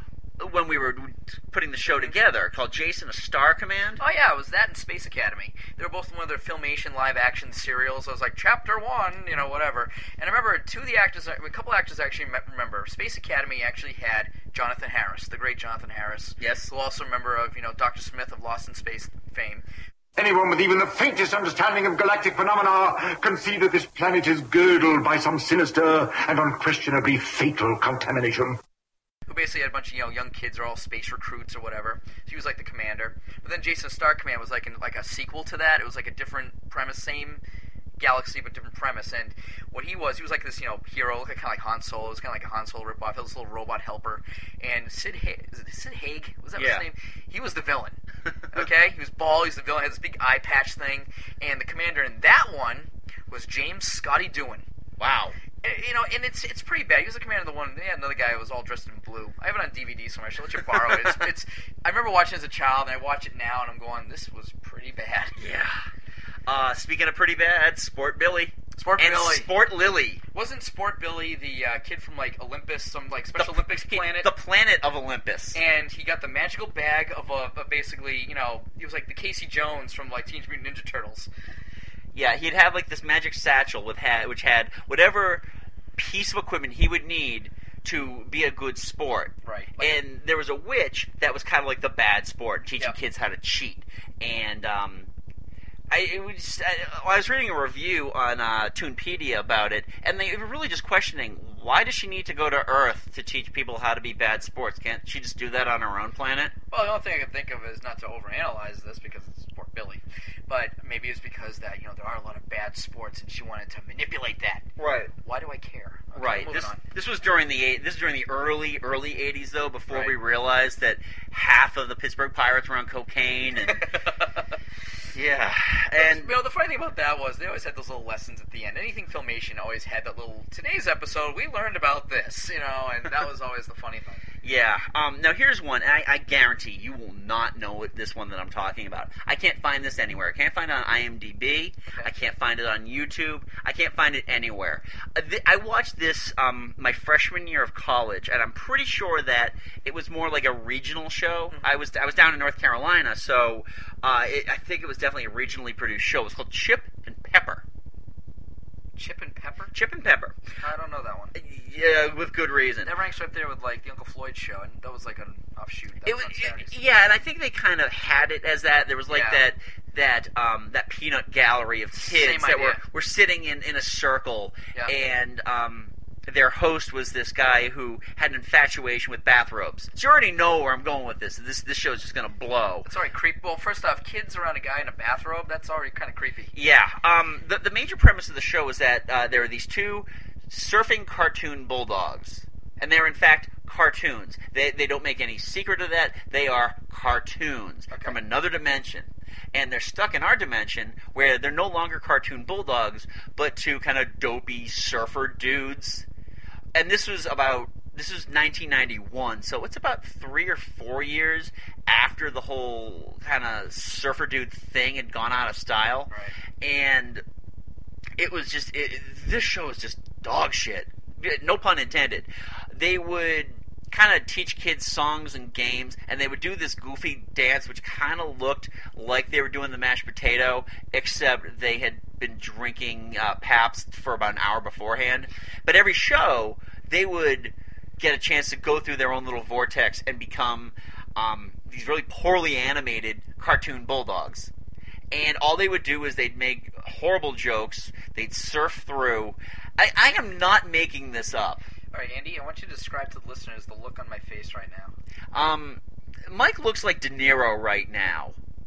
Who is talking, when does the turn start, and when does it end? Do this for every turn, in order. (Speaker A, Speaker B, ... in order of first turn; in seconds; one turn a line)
Speaker A: 0.4-4.0
Speaker B: 4.0-19.6
Speaker A: 16.4-16.7
Speaker C: 20.2-28.6
Speaker B: 29.3-37.4
Speaker B: 38.0-48.0
Speaker A: 46.6-46.9
Speaker B: 48.5-54.6
Speaker A: 55.0-55.4
Speaker B: 55.6-65.4
Speaker A: 60.7-61.1
Speaker A: 65.4-65.8
Speaker A: 66.5-70.2
Speaker B: 68.8-69.5
Speaker B: 70.3-74.3
Speaker A: 73.3-75.6
Speaker B: 75.5-81.3
Speaker A: 82.1-85.4
Speaker A: 86.0-95.1
Speaker B: 89.5-90.0
Speaker A: 95.9-106.5
Speaker B: 106.7-116.8
Speaker A: 114.8-115.1
Speaker A: 116.2-123.9
Speaker B: 119.9-120.2
Speaker B: 123.7-124.5
Speaker A: 125.1-126.4
Speaker B: 126.0-134.2
Speaker A: 134.4-157.6
Speaker B: 151.5-151.8
Speaker B: 159.0-159.7
Speaker A: 159.7-160.4
Speaker B: 160.6-161.4
Speaker A: 161.3-163.0
Speaker B: 162.8-166.8
Speaker A: 166.0-182.9
Speaker B: 169.1-169.4
Speaker B: 172.0-172.8
Speaker B: 182.8-186.5
Speaker A: 186.5-206.1
Speaker B: 197.9-198.2
Speaker A: 206.7-217.2
Speaker A: 218.2-244.5
Speaker A: 245.1-251.6
Speaker B: 251.9-254.9
Speaker A: 255.3-258.4